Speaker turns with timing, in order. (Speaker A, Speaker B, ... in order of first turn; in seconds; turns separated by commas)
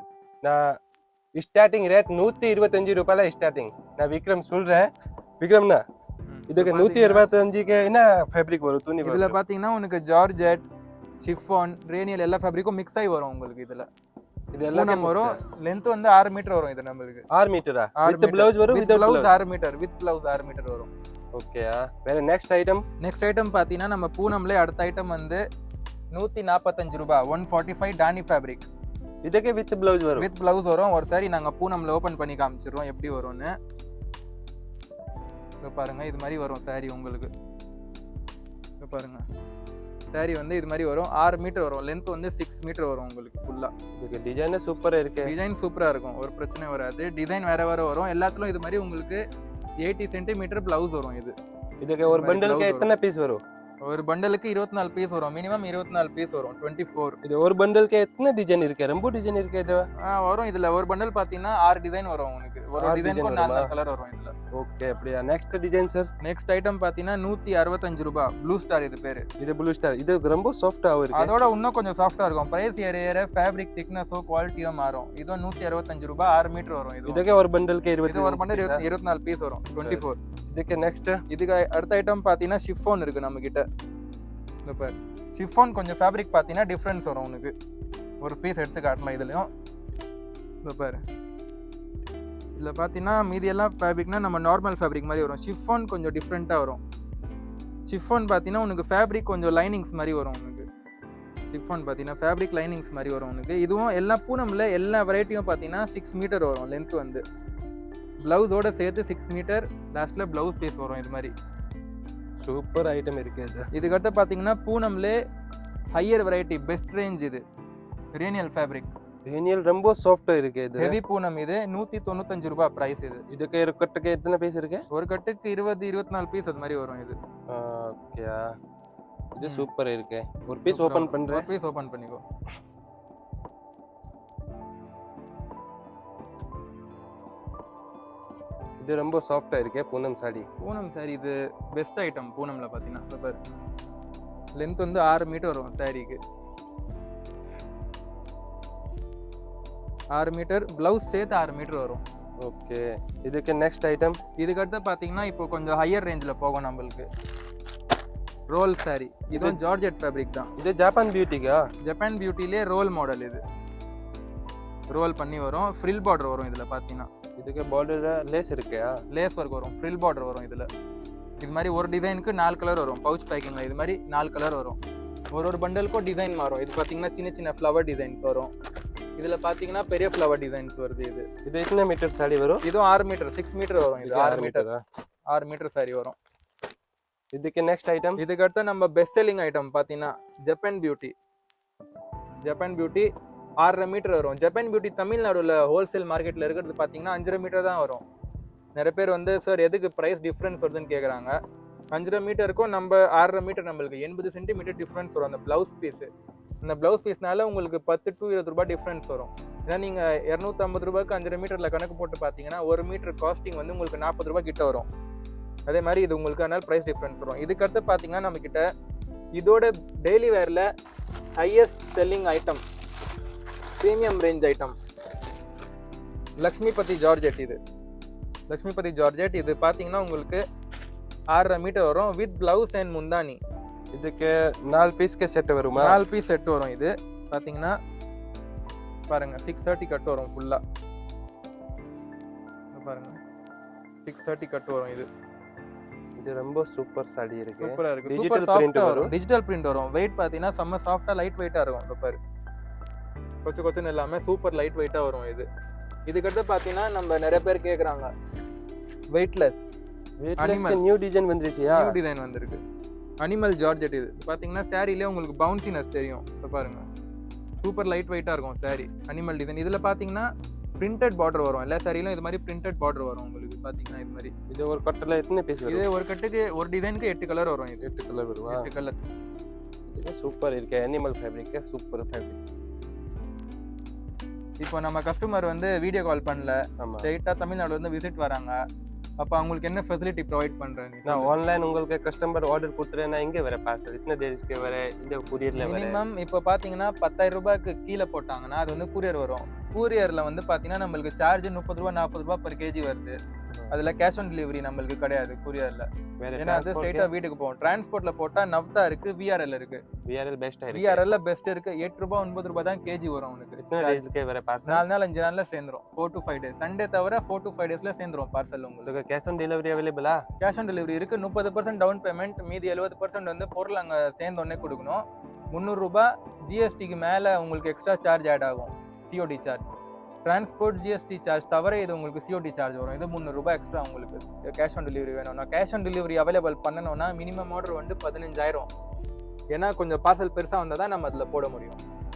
Speaker A: 0.4-0.8, Speaker A: 1.4-5.8, Speaker B: 6.3-7.3, Speaker A: 6.5-9.4, Speaker B: 9.0-10.7, Speaker B: 11.2-13.9, Speaker A: 14.5-15.4, Speaker B: 14.7-17.3, Speaker A: 17.3-19.3, Speaker B: 18.0-20.9, Speaker A: 21.4-22.8, Speaker B: 23.0-25.4, Speaker B: 26.1-28.7, Speaker A: 29.2-30.3, Speaker B: 30.2-33.5, Speaker B: 35.6-37.3, Speaker B: 38.8-39.2, Speaker B: 40.1-43.7, Speaker A: 44.0-45.3, Speaker B: 45.2-49.2, Speaker B: 49.8-51.4, Speaker A: 51.8-53.4, Speaker B: 52.1-52.9, Speaker B: 53.8-57.2, Speaker A: 57.2-59.9, Speaker B: 60.0-64.3, Speaker A: 62.8-63.7, Speaker A: 64.5-66.1, Speaker B: 66.2-69.3, Speaker A: 69.4-71.3, Speaker B: 71.1-77.2, Speaker A: 77.1-78.8, Speaker B: 78.1-80.2, Speaker A: 79.8-81.2, Speaker B: 81.3-83.6, Speaker B: 84.7-87.5, Speaker B: 88.2-89.5, Speaker B: 90.7-91.0, Speaker B: 92.5-96.8, Speaker B: 97.9-100.7, Speaker B: 101.5-107.2, Speaker B: 108.2-111.3, Speaker A: 112.4-113.7, Speaker B: 113.7-115.2, Speaker B: 115.9-117.4, Speaker B: 118.1-118.9, Speaker A: 119.3-121.0, Speaker B: 120.8-123.2, Speaker A: 123.3-124.8, Speaker B: 124.9-127.2, Speaker A: 127.5-128.5, Speaker A: 129.4-131.5, Speaker B: 129.4-129.7, Speaker B: 130.7-132.2, Speaker A: 138.8-140.5, Speaker B: 140.6-143.4, Speaker B: 144.6-146.2, Speaker B: 150.1-152.0, Speaker A: 152.4-154.2, Speaker B: 154.4-157.1, Speaker B: 158.5-160.5, Speaker A: 160.6-161.7, Speaker B: 161.8-163.4, Speaker B: 164.9-167.1, Speaker A: 167.4-168.9, Speaker B: 169.1-170.7, Speaker B: 171.4-174.8, Speaker B: 175.3-178.5, Speaker B: 179.2-181.3, Speaker A: 181.5-182.6, Speaker B: 182.6-184.7, Speaker A: 184.0-184.8, Speaker B: 185.3-186.2, Speaker A: 187.3-188.2, Speaker B: 188.2-191.1, Speaker B: 192.4-193.1, Speaker B: 193.6-198.0, Speaker B: 198.8-201.4, Speaker B: 201.9-206.1, Speaker B: 206.6-214.9, Speaker B: 215.7-218.7, Speaker B: 219.4-220.7, Speaker B: 221.4-222.6, Speaker B: 223.8-224.8, Speaker B: 226.4-227.6, Speaker B: 228.5-230.4, Speaker B: 231.3-233.4, Speaker A: 233.9-236.0, Speaker B: 235.8-237.7, Speaker B: 239.1-240.6, Speaker B: 242.7-243.2, Speaker B: 244.1-245.1, Speaker A: 246.2-249.1, Speaker B: 247.6-252.2, Speaker B: 253.4-255.5, Speaker B: 256.1-258.1, Speaker B: 259.1-259.8, Speaker A: 260.2-262.0, Speaker B: 260.4-260.8, Speaker B: 261.7-262.6, Speaker B: 263.2-266.9, Speaker B: 267.6-270.3, Speaker B: 270.8-274.3, Speaker A: 274.5-275.9, Speaker B: 275.7-277.8, Speaker A: 277.8-278.7, Speaker B: 278.5-279.0, Speaker A: 279.9-282.4, Speaker B: 284.6-288.6, Speaker A: 286.8-287.1, Speaker B: 289.2-291.3, Speaker A: 291.1-296.0, Speaker B: 295.6-303.2, Speaker B: 303.7-309.8, Speaker A: 306.2-307.1, Speaker A: 310.1-311.1, Speaker B: 310.7-314.0, Speaker A: 313.6-314.9, Speaker B: 314.7-318.9, Speaker A: 318.9-320.2, Speaker B: 320.4-329.7, Speaker B: 330.2-338.7, Speaker B: 339.5-341.8